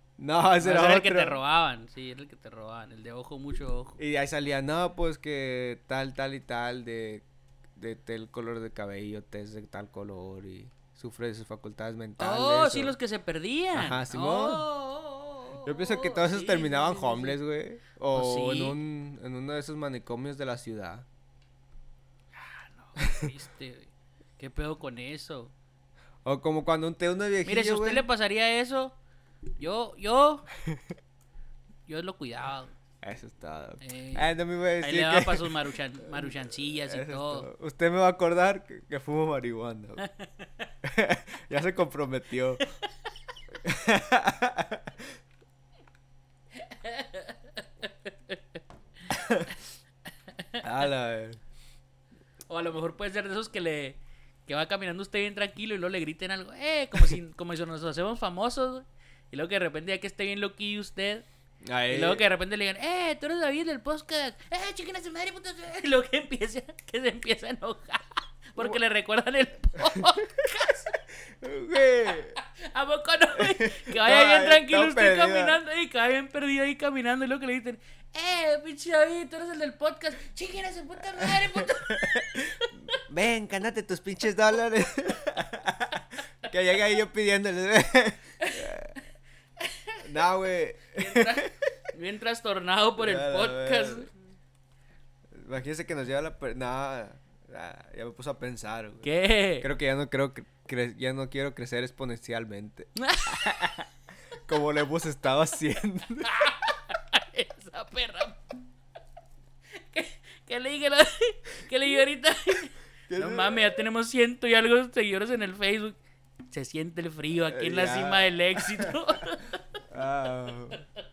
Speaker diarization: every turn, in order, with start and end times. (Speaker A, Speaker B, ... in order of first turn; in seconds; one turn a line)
Speaker A: 0.2-1.4
Speaker B: 0.6-4.0
Speaker A: 4.0-7.2
Speaker A: 7.8-12.9
Speaker B: 12.2-17.4
Speaker A: 13.7-14.7
Speaker A: 15.6-21.1
Speaker B: 18.1-18.8
Speaker B: 22.3-25.5
Speaker A: 23.0-23.3
Speaker A: 26.2-28.0
Speaker B: 27.4-28.9
Speaker B: 29.6-30.5
Speaker B: 31.9-32.7
Speaker A: 33.0-40.0
Speaker B: 33.8-34.3
Speaker B: 34.8-37.5
Speaker B: 40.0-40.5
Speaker A: 40.8-42.7
Speaker A: 43.6-45.0
Speaker B: 46.5-48.6
Speaker A: 49.1-49.5
Speaker B: 50.3-50.6
Speaker A: 50.6-51.4
Speaker B: 52.5-61.2
Speaker A: 61.6-62.2
Speaker B: 61.9-70.9
Speaker A: 71.4-72.3
Speaker B: 72.0-83.0
Speaker A: 73.4-75.6
Speaker A: 81.2-88.9
Speaker B: 88.4-88.7
Speaker B: 89.6-90.0
Speaker A: 90.0-91.7
Speaker B: 91.0-94.1
Speaker A: 93.0-94.1
Speaker A: 95.3-99.1
Speaker B: 99.0-99.7
Speaker A: 99.6-103.6
Speaker B: 103.0-103.9
Speaker A: 104.4-106.3
Speaker B: 106.2-108.4
Speaker B: 109.7-116.0
Speaker A: 113.1-113.8
Speaker B: 116.5-119.8
Speaker A: 117.5-119.2
Speaker A: 119.9-120.8